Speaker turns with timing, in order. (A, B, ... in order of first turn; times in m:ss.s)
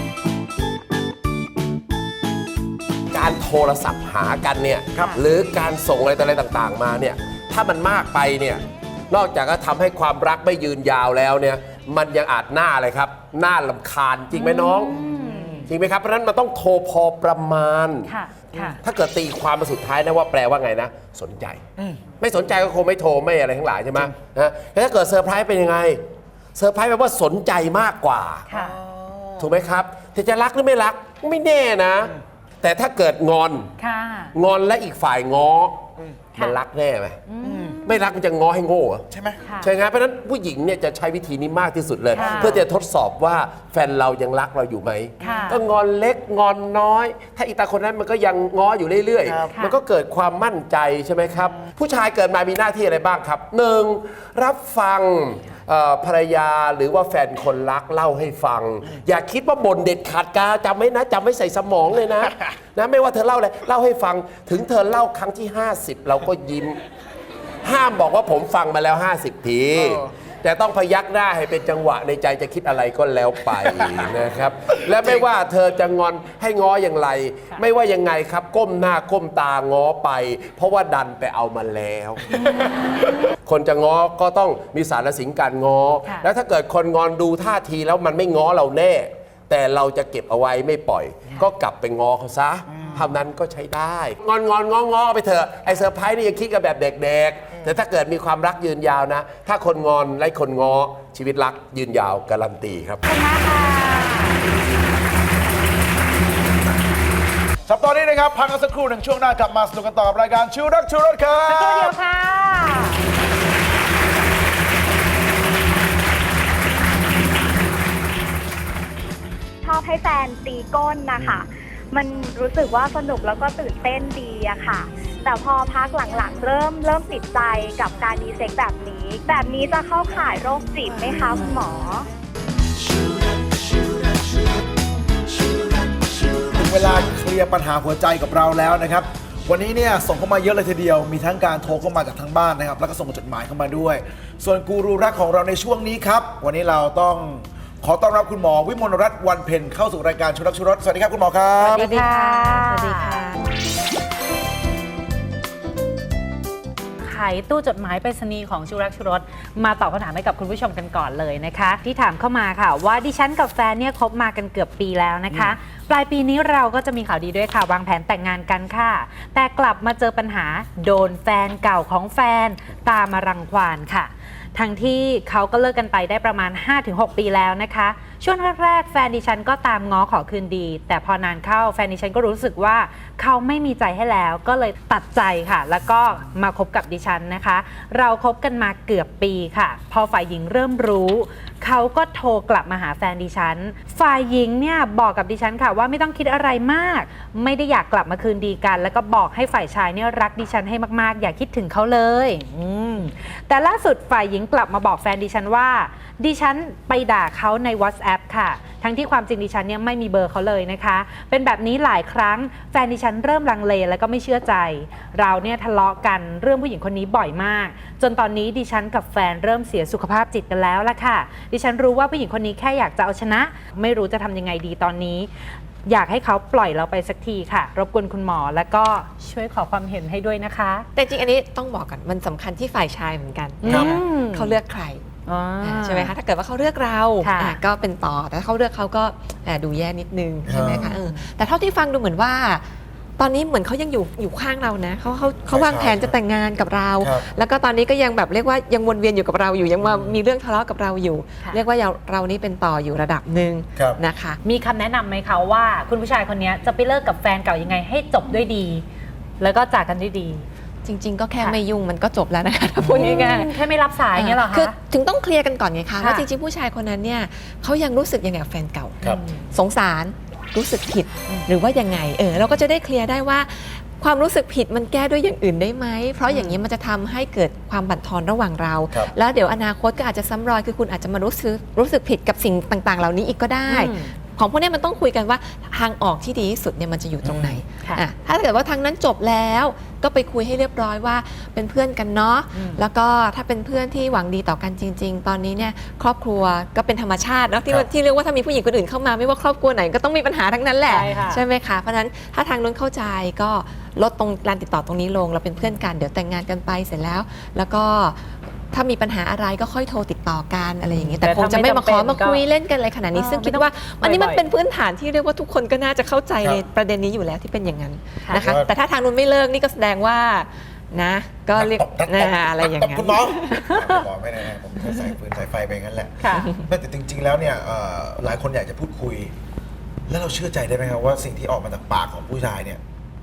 0:03.1-0:15.0 A
0:14.3-0:15.7 B
0:15.7-0:18.1 A
0:18.1-0:18.8 B
0:18.8-0:21.6 A
0:22.2-0:26.0 A
0:26.6-0:28.5 A
0:28.5-0:28.8 B
0:28.5-0:29.6 C
0:29.4-0:33.7 A
0:33.8-0:34.4 B
0:34.3-0:35.8 A
0:36.4-0:37.2 A
0:37.3-0:38.1 B
0:37.4-0:37.8 C
0:37.8-0:39.1 A
0:39.1-0:39.4 C
0:39.4-0:39.7 B
0:39.6-1:06.8 A
0:42.1-0:42.6 B
0:42.2-0:42.6 C
0:45.2-0:45.6 B
0:49.2-0:49.6 C
1:07.6-1:43.0 A
1:26.0-1:26.3 B
1:32.7-1:33.2 C
1:43.0-1:44.4 B
1:47.7-1:52.0 C
1:51.5-1:53.0 B
1:59.6-2:12.1 D
2:16.5-2:31.9 C
2:31.6-2:33.5 E
2:31.7-2:33.3 B
2:37.0-3:45.3 B
2:45.3-2:45.6 C
3:45.9-3:50.9 B
3:51.0-3:55.0 E
3:53.6-3:54.6 B
3:53.7-3:54.0 C
3:55.3-3:56.2 B
3:55.6-4:02.7 E
3:57.2-3:57.6 B
4:00.4-4:01.0 C
4:00.6-4:01.3 B
4:03.2-4:14.4 E
4:05.5-4:06.2 C
4:07.0-4:07.3 C
4:09.8-4:10.2 C
4:13.8-4:14.0 C
4:14.4-4:18.8 B
4:19.4-4:20.4 B
4:20.8-4:23.6 E
4:22.8-4:24.8 B
4:24.1-5:23.8 E
4:26.0-4:26.3 B
4:29.1-4:29.5 B
4:36.3-4:36.6 B
4:43.7-4:44.2 B
4:47.2-4:47.6 C
4:52.5-4:52.8 B
5:00.9-5:01.4 B
5:11.0-5:12.4 B
5:13.1-5:14.4 B
5:18.3-5:18.7 C
5:21.6-5:29.3 C
5:26.2-5:26.5 B
5:26.3-5:26.6 E
5:30.1-5:32.8 C